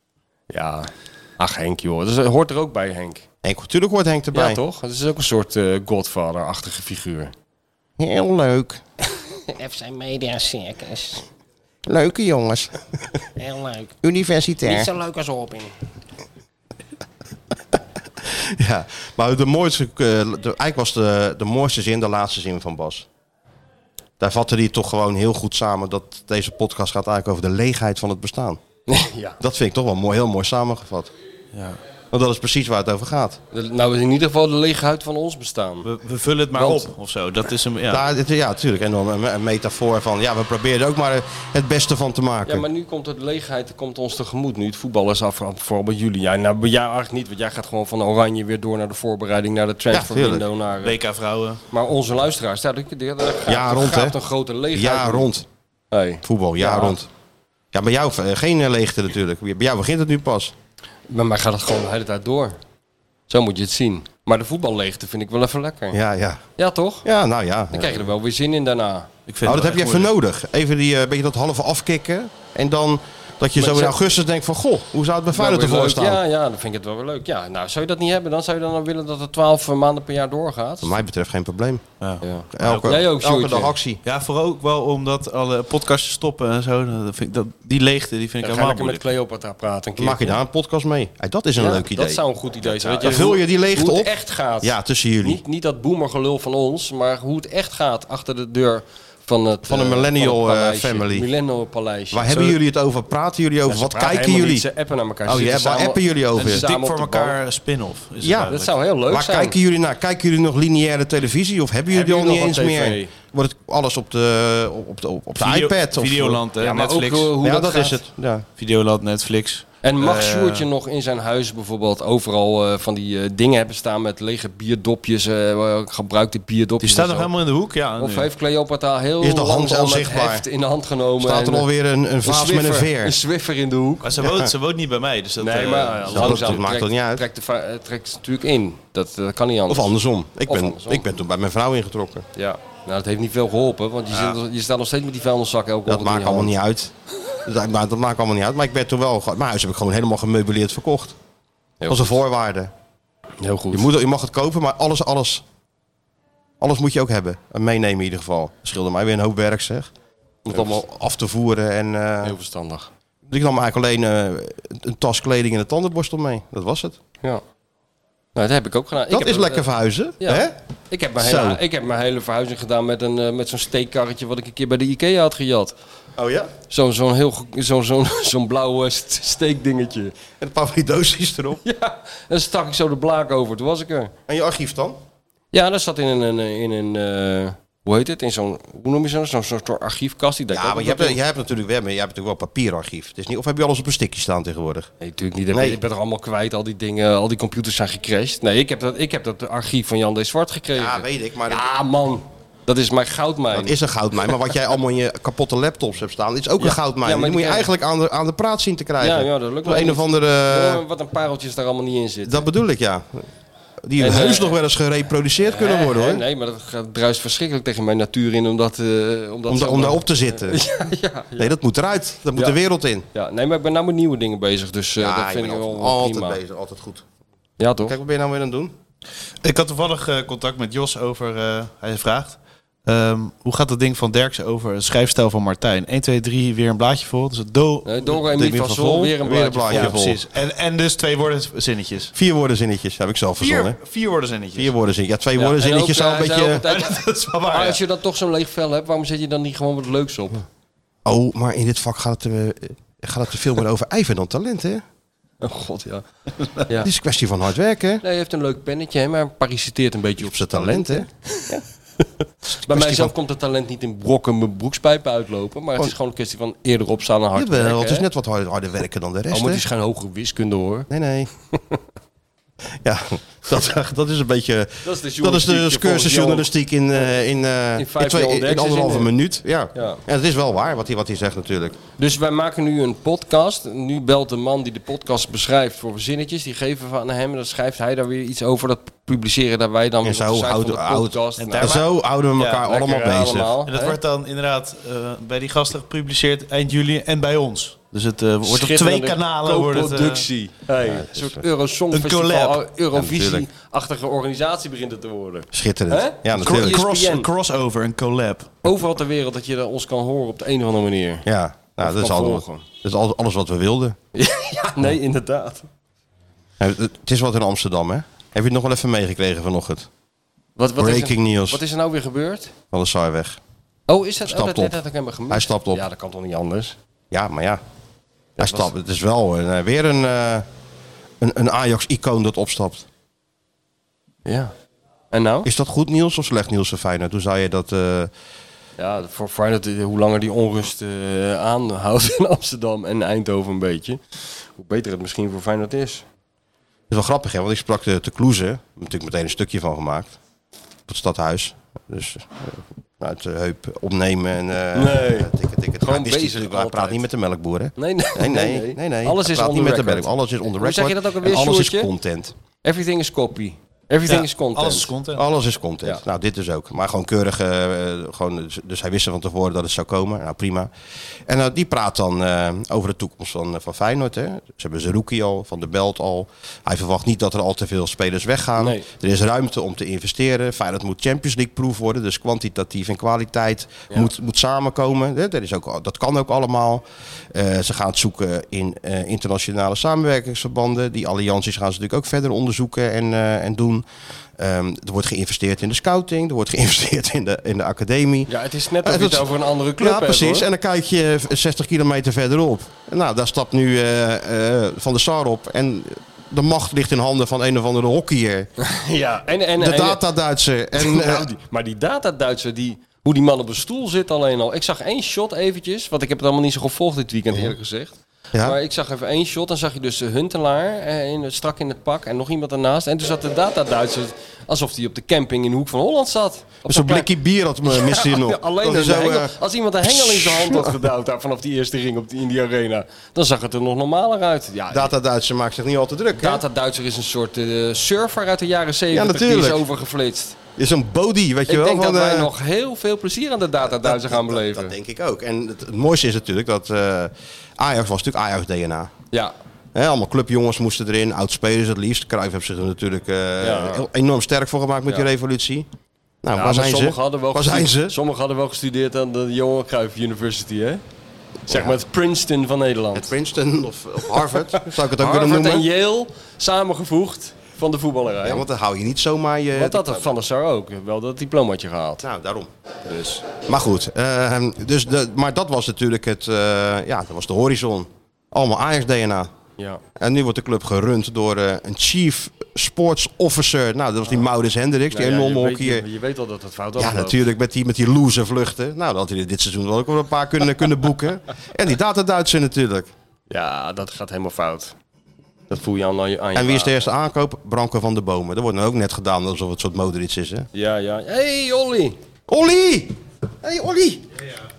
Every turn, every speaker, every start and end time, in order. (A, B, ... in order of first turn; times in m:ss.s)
0:00.5-0:03.2 A
0:03.4-0:04.6 B
0:04.3-0:07.3 A
0:08.0-0:08.8 B
0:09.5-0:11.2 C
0:11.9-0:13.2 B
0:13.4-0:13.9 C
0:14.0-0:14.9 B
0:14.8-0:15.7 C
0:17.7-0:23.1 B
0:24.2-0:28.6 B
0:28.9-0:29.4 A
0:29.4-0:31.1 B
0:32.1-0:33.4 B
0:33.5-0:35.9 A
0:35.8-0:38.0 D
0:36.5-0:36.9 A
0:37.9-0:42.6 B
0:42.5-0:51.0 A
0:49.9-0:50.4 B
0:50.8-0:51.6 D
0:51.7-0:55.3 A
0:53.4-0:54.2 B
0:54.7-0:55.5 B
0:55.9-0:57.0 A
0:56.2-0:57.1 B
0:57.7-1:00.5 B
1:01.1-1:02.6 A
1:03.3-1:06.0 A
1:05.9-1:06.4 B
1:06.6-1:07.1 A
1:07.0-1:08.1 B
1:07.7-1:09.1 A
1:09.3-1:10.1 D
1:09.4-1:16.2 B
1:13.6-1:14.0 A
1:15.3-1:21.0 A
1:20.8-1:21.8 B
1:22.0-1:23.0 D
1:22.2-1:23.8 A
1:22.5-1:24.0 B
1:24.0-1:29.1 D
1:28.4-1:30.4 A
1:30.0-1:35.4 B
1:31.6-1:42.5 A
1:39.7-1:41.3 B
1:42.1-1:44.7 B
1:43.7-1:47.4 A
1:45.3-1:46.6 B
1:46.4-1:48.8 D
1:48.2-1:48.5 B
1:48.5-1:49.6 A
1:49.1-1:56.4 B
1:51.9-1:53.1 A
1:55.4-1:57.4 D
1:56.6-1:58.0 A
1:57.4-1:58.5 B
1:58.6-2:00.7 D
1:59.8-2:07.3 A
2:06.8-2:08.3 D
2:08.0-2:11.7 A
2:09.2-2:10.4 B
2:11.2-2:13.2 B
2:12.2-2:14.1 A
2:14.0-2:16.6 D
2:14.2-2:14.5 B
2:15.4-2:20.0 A
2:16.1-2:17.2 B
2:19.7-2:22.3 B
2:20.5-2:21.0 A
2:22.4-2:26.5 A
2:25.9-2:26.9 B
2:27.4-2:31.2 B
2:31.8-2:32.1 A
2:31.9-2:32.7 B
2:33.4-2:33.9 A
2:33.7-2:35.4 B
2:36.6-2:39.9 B
2:40.4-2:42.4 B
2:42.2-2:42.9 A
2:43.3-2:47.0 B
2:48.4-2:49.7 A
2:49.1-2:50.6 B
2:50.2-2:55.7 A
2:51.2-2:51.6 B
2:56.2-2:56.5 B
2:56.7-3:00.1 A
3:00.4-3:01.6 B
3:01.6-3:04.1 A
3:04.3-3:05.0 B
3:05.5-3:11.2 A
3:10.5-3:14.9 B
3:15.0-3:23.8 A
3:15.5-3:15.8 B
3:20.8-3:21.7 B
3:23.5-3:30.8 B
3:26.6-3:27.7 A
3:29.0-3:32.5 A
3:32.3-3:33.3 B
3:33.8-3:36.2 B
3:34.0-3:34.6 A
3:35.4-3:41.6 A
3:39.5-3:40.6 B
3:41.4-3:43.1 B
3:43.1-3:46.4 A
3:45.0-3:47.0 B
3:47.6-3:48.0 A
3:47.8-3:48.8 B
3:49.4-3:58.1 D
3:57.8-4:00.0 A
3:58.1-4:00.2 B
3:59.7-4:02.1 D
4:02.2-4:03.8 B
4:03.4-4:04.7 D
4:04.6-4:06.6 B
4:05.4-4:10.4 A
4:06.6-4:07.8 D
4:11.0-4:14.8 B
4:15.4-4:16.0 A
4:16.6-4:16.9 A
4:16.8-4:18.0 B
4:18.0-4:21.6 A
4:20.2-4:21.6 B
4:22.6-4:23.1 B
4:22.6-4:28.1 A
4:27.4-4:29.6 B
4:29.3-4:30.9 A
4:30.9-4:31.3 B
4:31.5-4:31.8 A
4:32.8-4:41.8 B
4:34.8-4:36.5 A
4:37.8-4:39.1 A
4:39.7-4:40.0 A
4:42.0-4:51.8 A
4:50.0-4:53.6 B
4:51.4-4:52.7 D
4:52.6-4:54.0 A
4:53.7-5:00.3 D
4:58.4-5:07.3 A
5:00.8-5:01.4 B
5:01.9-5:02.6 D
5:02.9-5:03.5 B
5:05.5-5:06.8 B
5:06.4-5:08.6 D
5:08.6-5:11.3 A
5:11.3-5:14.0 B
5:11.8-5:12.6 A
5:14.2-5:15.7 A
5:16.6-5:19.9 B
5:20.6-5:22.5 A
5:20.8-5:21.6 B
5:22.7-5:23.4 B
5:23.9-5:26.8 A
5:24.2-5:24.8 B
5:25.3-5:25.8 B
5:27.1-5:27.6 B
5:28.4-5:28.7 A
5:28.4-5:30.5 B
5:31.2-5:32.9 B
5:34.3-5:34.5 A
5:35.1-5:35.5 A
5:35.4-5:38.1 B
5:38.8-5:46.0 A
5:46.9-5:50.2 B
5:50.9-6:02.3 B
5:54.7-5:57.0 A
5:57.8-6:01.9 A
6:02.6-6:04.9 A
6:04.1-6:05.2 D
6:05.2-6:10.7 B
6:11.3-6:33.8 B
6:18.6-6:18.9 A
6:34.4-6:48.5 B
6:38.3-6:40.5 A
6:48.6-6:50.0 A
6:49.6-6:51.3 B
6:50.8-7:07.1 A
7:06.7-7:10.8 B
7:07.7-7:14.9 A
7:14.7-7:16.4 B
7:16.2-7:20.4 A
7:18.9-7:19.6 B
7:20.6-7:22.3 B
7:21.5-7:24.7 A
7:23.6-7:28.9 B
7:29.7-7:35.7 B
7:33.4-7:33.9 A
7:36.2-7:38.0 B
7:36.3-7:40.8 A
7:41.5-7:43.1 A
7:41.5-7:41.7 B
7:42.9-7:45.7 B
7:44.5-7:48.4 A
7:48.2-7:50.1 B
7:49.5-7:52.0 A
7:52.0-7:52.5 B
7:52.9-7:53.2 A
7:53.4-7:59.3 B
8:00.0-8:05.8 B
8:04.9-8:07.3 A
8:06.8-8:12.9 B
8:13.3-8:14.8 A
8:15.5-8:16.9 A
8:16.4-8:20.5 B
8:20.5-8:22.0 A
8:22.3-8:24.1 B